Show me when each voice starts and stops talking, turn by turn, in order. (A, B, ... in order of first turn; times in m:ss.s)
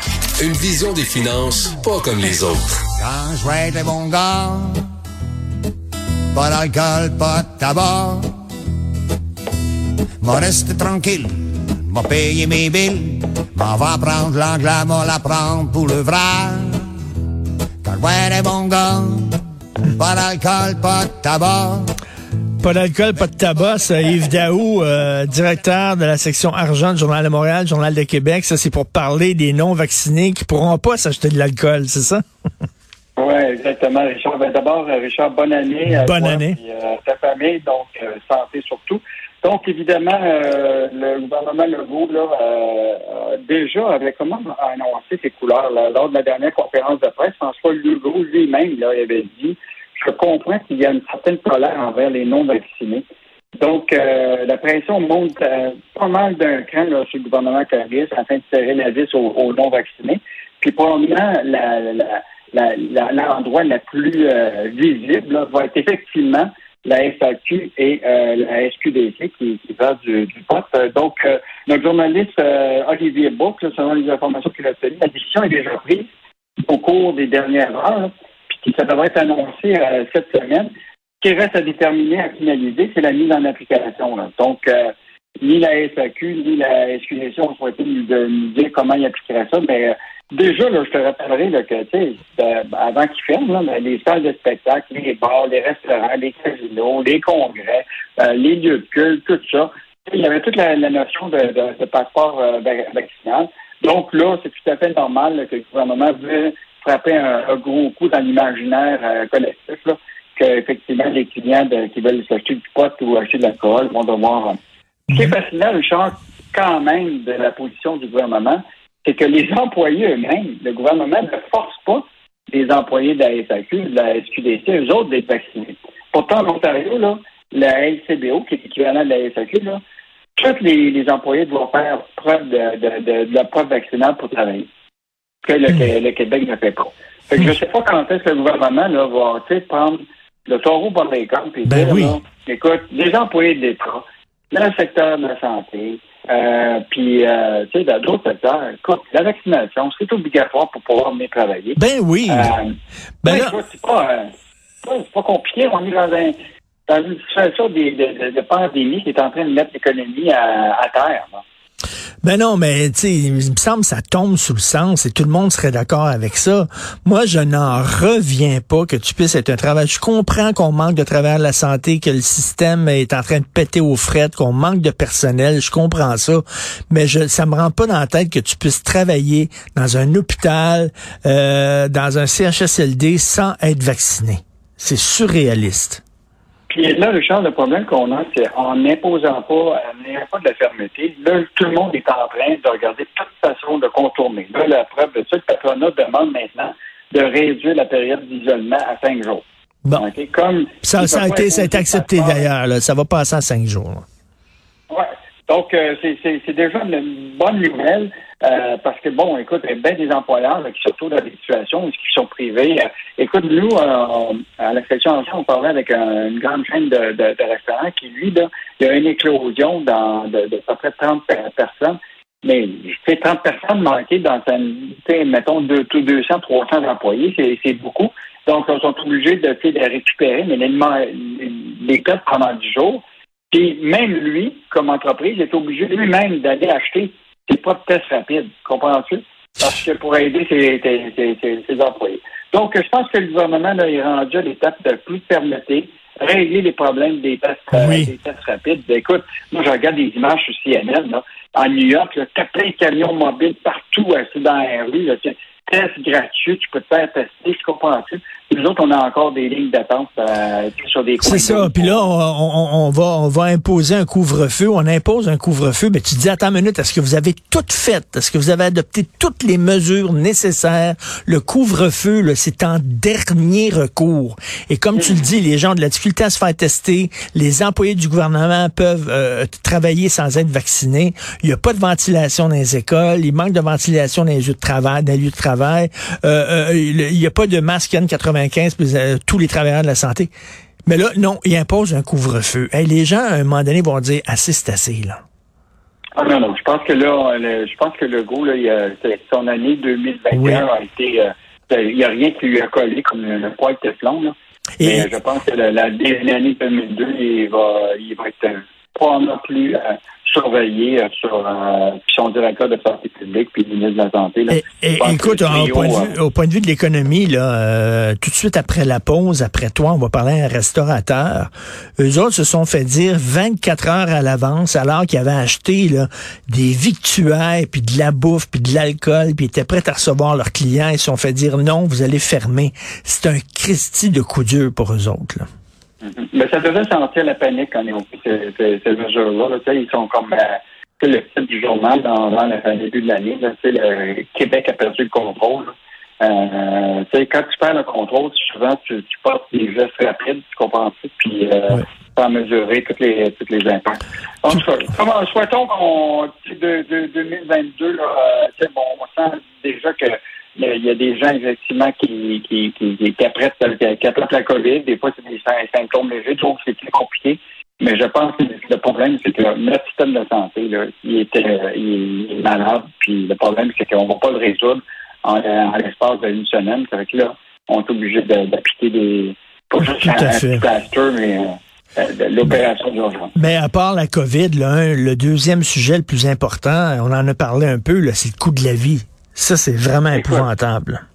0:00.4-0:02.8 A
0:03.0-0:04.8 B
0:06.3-0:08.3 B
0:10.2-0:16.8 B
0:17.8-0:21.9 B
0:22.6-0:32.2 C
0:33.2-0:53.0 D
0:35.8-0:36.6 C
0:53.6-1:16.1 D
1:16.6-1:20.7 D
1:21.2-1:54.6 D
1:55.1-2:09.8 D
2:10.4-2:14.7 D
2:15.4-2:34.3 D
2:21.6-2:22.2 C
2:31.8-2:32.5 C
2:33.2-2:33.5 C
2:34.8-2:36.3 D
2:36.9-2:41.4 D
2:42.2-3:06.0 C
3:06.7-3:19.4 D
3:20.0-3:22.5 D
3:20.8-3:24.0 C
3:24.9-4:22.0 D
4:07.7-4:08.1 C
4:21.2-4:50.3 C
4:35.0-4:35.3 D
4:50.8-4:55.2 C
4:56.2-5:16.1 D
5:00.3-5:00.6 C
5:04.8-5:05.1 C
5:14.5-5:35.4 C
5:36.0-6:23.3 D
6:20.0-6:20.6 C
6:23.4-6:31.0 C
6:30.1-6:30.5 D